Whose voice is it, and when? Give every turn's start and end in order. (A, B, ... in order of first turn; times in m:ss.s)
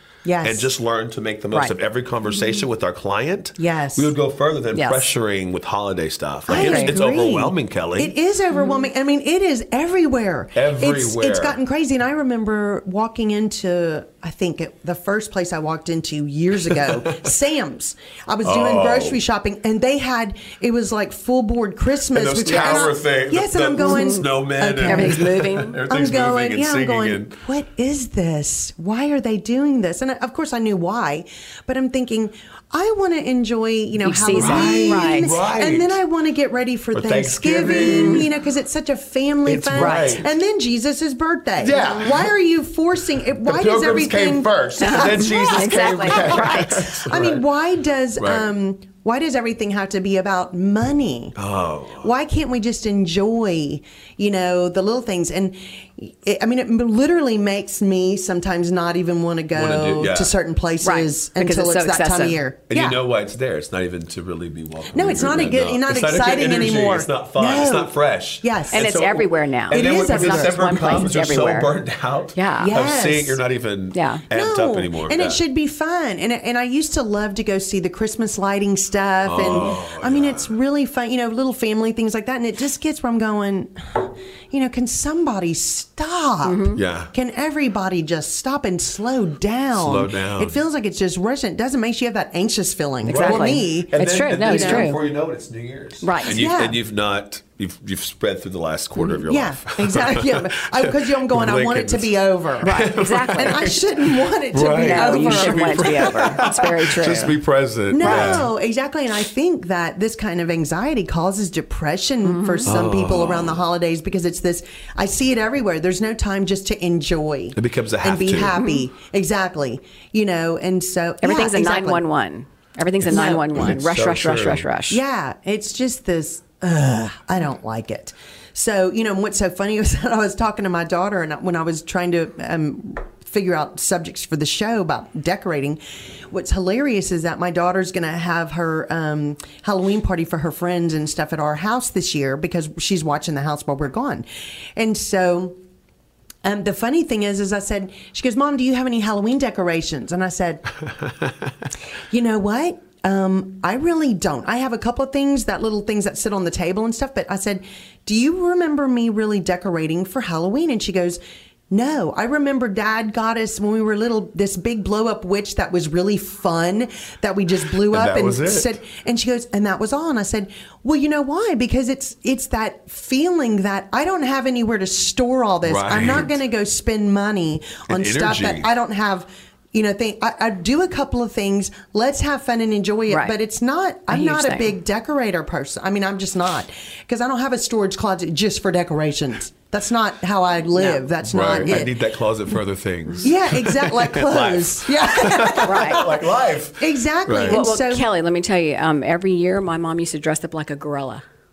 0:00.2-0:00.7 A
0:00.4-0:08.1 B
0:03.6-0:04.1 A
0:04.8-0:05.1 C
0:06.5-0:51.4 A
0:06.5-0:06.9 C
0:08.5-0:08.9 C
0:10.6-0:11.6 B
0:18.4-0:19.2 B
0:22.1-0:27.4 B
0:22.5-0:22.9 C
0:23.8-0:24.2 C
0:24.8-0:25.8 C
0:34.0-0:35.4 C
0:34.3-0:36.0 B
0:36.9-0:38.3 B
0:37.7-0:38.2 C
0:39.5-0:40.3 B
0:39.8-0:40.2 C
0:41.6-0:42.3 B
0:41.8-0:42.1 C
0:43.4-0:47.4 B
0:44.8-0:47.0 C
0:48.2-0:48.5 B
0:51.4-0:52.1 B
0:52.0-1:03.0 A
0:59.5-1:00.3 B
1:00.8-1:02.4 C
1:02.7-1:15.4 B
1:04.9-1:08.9 A
1:08.7-1:11.7 C
1:09.7-1:11.1 A
1:12.4-1:12.7 C
1:12.6-1:13.4 A
1:13.9-1:14.2 C
1:14.3-1:34.9 A
1:19.2-1:20.5 B
1:26.4-1:26.8 C
1:26.7-1:27.1 B
1:29.7-1:30.6 B
1:33.0-1:43.7 B
1:33.1-1:35.0 C
1:36.0-1:36.4 C
1:36.2-1:36.8 A
1:39.3-1:46.6 A
1:42.6-1:43.8 C
1:44.5-1:48.5 B
1:44.6-1:47.4 C
1:47.9-2:02.0 A
1:48.0-1:48.4 C
1:52.2-1:52.7 C
1:52.6-1:53.6 B
1:57.6-1:58.6 B
2:01.2-2:05.0 C
2:03.0-2:04.7 B
2:03.1-2:03.4 A
2:04.9-2:15.8 A
2:16.3-2:24.2 A
2:24.8-2:25.6 A
2:26.4-2:30.7 A
2:31.0-2:31.5 B
2:32.1-2:41.2 A
2:41.7-3:11.9 A
2:47.9-2:48.8 B
2:55.6-2:56.3 B
2:57.9-2:58.7 B
3:03.1-3:03.3 C
3:04.1-3:04.7 C
3:10.8-3:11.0 C
3:11.2-3:17.6 B
3:13.2-3:16.1 A
3:15.6-3:16.1 C
3:16.8-3:18.1 A
3:17.4-3:21.2 C